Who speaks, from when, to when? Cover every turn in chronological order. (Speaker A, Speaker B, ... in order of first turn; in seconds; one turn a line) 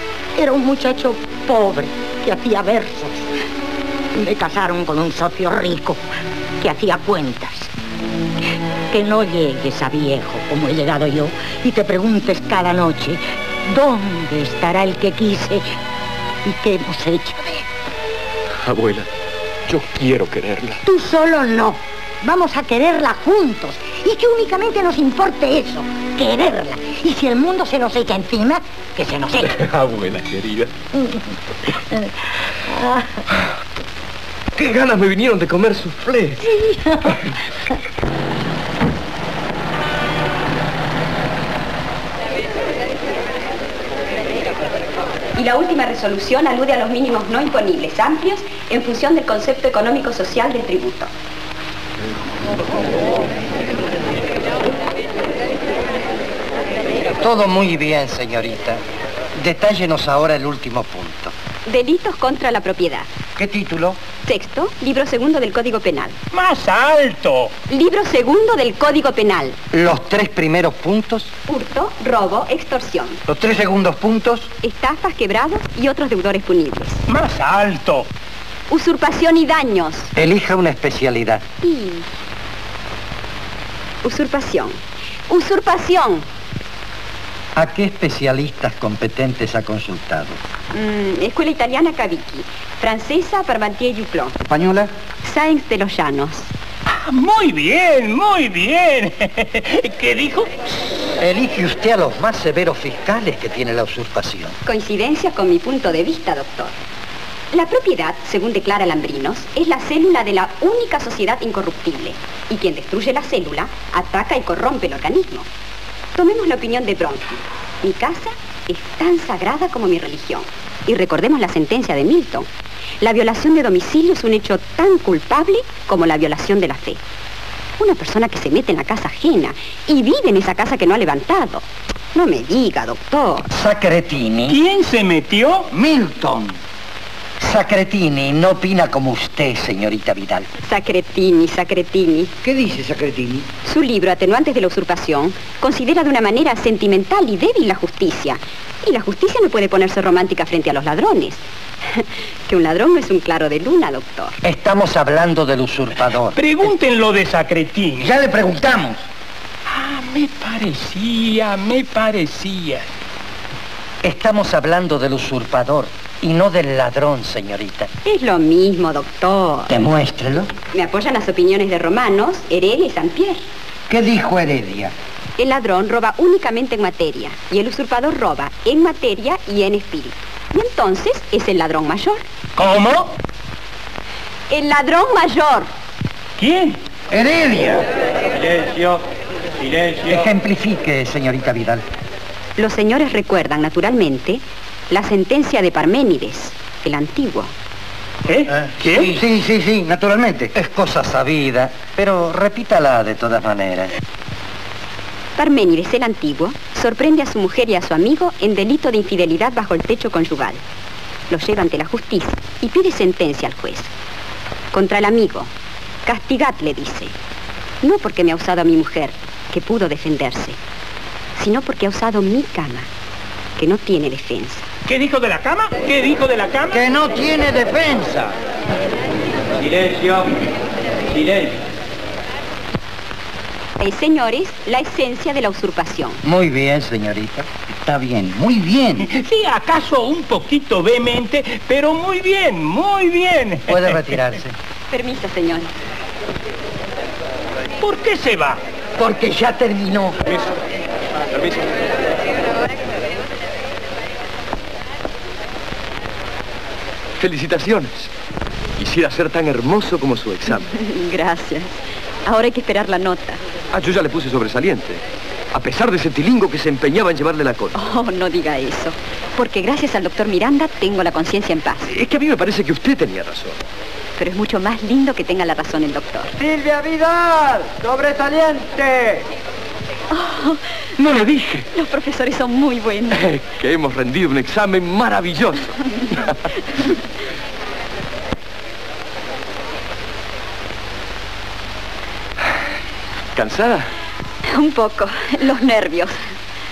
Speaker A: 0.3-3.3
Speaker A: 4.1-6.0
Speaker A: 6.6-7.7
Speaker A: 8.9-15.7
Speaker A: 16.4-17.6
Speaker B: 18.6-19.1
Speaker B: 19.7-20.8
Speaker A: 20.8-29.6
Speaker B: 29.4-30.7
Speaker A: 30.9-32.1
Speaker A: 32.6-33.2
Speaker B: 34.5-36.5
Speaker A: 36.4-37.2
Speaker B: 37.1-37.3
Speaker C: 45.4-51.1
Speaker D: 57.1-58.8
Speaker D: 59.4-61.3
Speaker C: 61.7-63.1
Speaker D: 63.4-64.0
Speaker C: 64.2-66.2
Speaker E: 66.3-67.5
Speaker C: 67.7-69.6
Speaker D: 69.7-71.3
Speaker C: 71.5-73.2
Speaker D: 73.3-74.5
Speaker C: 74.6-77.0
Speaker E: 77.1-78.1
Speaker C: 78.7-80.1
Speaker D: 80.1-81.4
Speaker C: 81.6-82.0
Speaker C: 84.0-86.3
Speaker D: 87.6-88.8
Speaker D: 90.0-90.3
Speaker C: 90.7-94.4
Speaker C: 95.2-96.5
Speaker E: 97.0-100.5
Speaker D: 101.2-104.5
Speaker C: 104.7-106.7
Speaker C: 107.5-115.5
Speaker C: 116.2-122.5
Speaker C: 123.0-127.0
Speaker C: 127.8-133.5
Speaker D: 133.5-134.5
Speaker E: 134.4-135.7
Speaker D: 135.7-136.5
Speaker D: 137.4-140.5
Speaker C: 140.6-142.3
Speaker D: 142.4-143.4
Speaker C: 143.6-154.4
Speaker D: 154.4-156.4
Speaker E: 156.3-158.1
Speaker D: 158.0-159.0
Speaker E: 159.7-162.8
Speaker D: 164.0-167.9
Speaker C: 168.0-169.7
Speaker D: 169.7-170.5
Speaker C: 170.7-173.4
Speaker D: 173.9-174.9
Speaker C: 175.4-182.2
Speaker E: 182.6-183.1
Speaker C: 184.5-185.7
Speaker E: 186.4-186.8
Speaker D: 187.1-187.8
Speaker D: 189.6-191.8
Speaker C: 192.6-197.5
Speaker E: 198.3-199.2
Speaker D: 198.5-203.9
Speaker C: 205.4-210.6
Speaker C: 211.3-213.9
Speaker C: 214.7-215.5
Speaker C: 216.1-217.1
Speaker C: 217.8-220.6
Speaker C: 221.4-222.9
Speaker C: 223.6-224.6
Speaker E: 224.9-226.8
Speaker D: 226.7-228.3
Speaker D: 229.6-230.2
Speaker C: 233.8-236.2
Speaker D: 236.2-237.4
Speaker E: 239.1-244.1
Speaker D: 243.7-244.5
Speaker C: 244.9-245.7
Speaker E: 247.8-248.6
Speaker D: 249.0-250.1
Speaker B: 257.2-258.1
Speaker B: 258.8-260.7
Speaker C: 260.5-263.4
Speaker B: 263.7-265.0
Speaker B: 265.5-267.8
Speaker C: 267.7-271.9
Speaker B: 271.9-273.6
Speaker C: 274.2-276.4
Speaker D: 276.7-279.1
Speaker C: 280.1-280.9
Speaker B: 281.0-281.7
Speaker C: 281.7-283.2
Speaker B: 283.1-286.4
Speaker B: 293.3-293.9
Speaker C: 294.5-296.3